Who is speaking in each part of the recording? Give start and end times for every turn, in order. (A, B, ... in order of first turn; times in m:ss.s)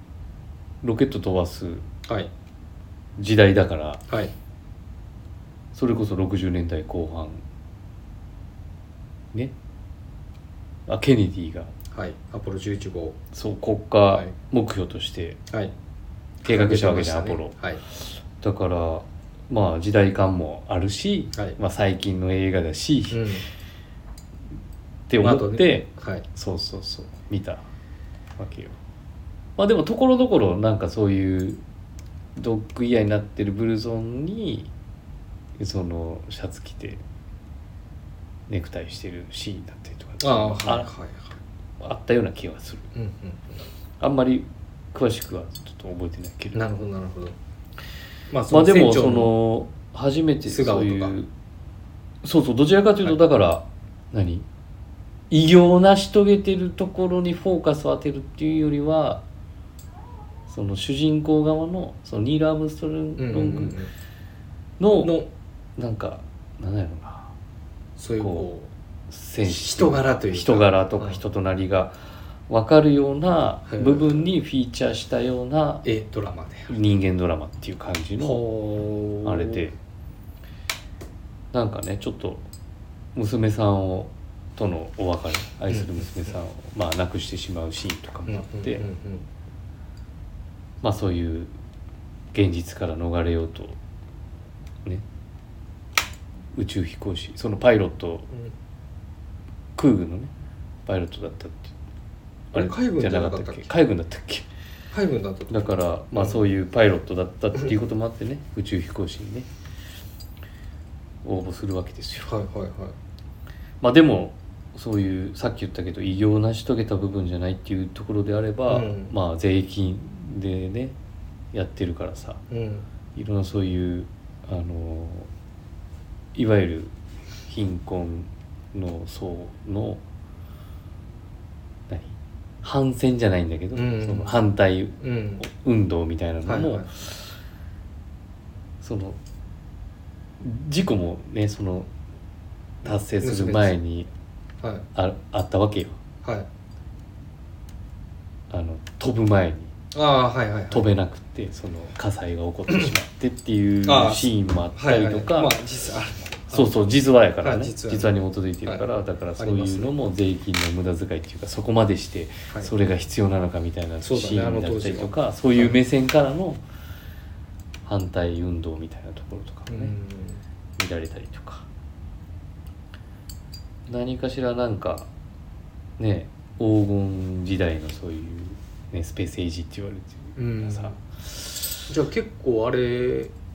0:00.8-0:01.8 A
0:02.0-0:02.3 B
0:03.2-0:04.0 A
0:05.7-0:07.4 A
0:10.9-0:11.7 A
0:11.9-0:13.2 B
0:13.3-0:15.4 A
0:14.1-0:14.3 B
0:16.4-0:17.8 B
0:16.4-0:23.3 A
0:23.1-0:23.4 B
0:25.1-0:27.6 A
0:25.2-0:26.2 B
0:28.4-0:28.8 A
0:29.6-0:31.6 A
0:32.4-0:34.7 A
0:35.6-0:37.0 A
0:38.5-0:40.9 A
0:40.2-0:41.4 B
0:41.8-0:42.9 A
0:42.9-0:43.6 B
0:44.0-0:46.6 A
0:46.5-0:47.4 B
0:48.3-0:49.3 B
0:48.5-0:51.3 A
0:50.5-0:51.2 B
0:52.2-0:54.4 A
0:55.3-0:59.2 A
1:00.5-1:03.8 A
1:03.2-1:03.9 B
1:04.8-1:05.1 A
1:05.0-1:05.3 B
1:05.8-1:07.3 A
1:08.0-1:08.7 B
1:08.2-1:08.4 A
1:09.1-1:15.8 A
1:09.4-1:11.2 B
1:13.7-1:14.3 B
1:15.8-1:16.9 B
1:16.7-1:18.4 A
1:18.2-1:19.6 B
1:19.2-1:19.8 A
1:21.5-1:22.5 A
1:23.1-1:28.8 A
1:25.7-1:26.0 B
1:28.3-1:29.2 B
1:30.8-1:31.5 A
1:32.3-1:33.8 A
1:36.5-1:38.3 A
1:39.8-1:40.3 A
1:40.8-1:41.7 A
1:42.5-1:43.7 B
1:42.5-1:44.5 A
1:44.9-1:46.4 B
1:45.5-1:49.5 A
1:51.2-1:52.3 A
1:52.2-1:52.9 B
1:53.8-2:01.0 A
1:58.7-1:59.1 B
2:01.5-2:02.4 A
2:02.5-2:02.8 B
2:03.1-2:05.3 A
2:06.3-2:06.9 A
2:07.5-2:10.0 A
2:11.9-2:17.2 A
2:13.7-2:14.4 B
2:15.0-2:15.4 B
2:16.4-2:16.9 B
2:18.8-2:19.2 A
2:20.4-2:21.9 A
2:22.8-2:24.1 A
2:23.2-2:23.8 B
2:24.9-2:26.0 A
2:28.5-2:29.7 A
2:29.9-2:30.9 B
2:30.7-2:35.6 A
2:33.8-2:36.7 B
2:36.5-2:46.6 A
2:37.4-2:38.1 B
2:39.4-2:39.9 B
2:44.0-2:45.7 B
2:47.8-2:49.9 A
2:49.7-2:50.4 B
2:50.8-2:51.7 A
2:53.9-2:55.1 A
2:56.0-3:01.0 A
3:00.4-3:01.0 B
3:01.9-3:03.3 B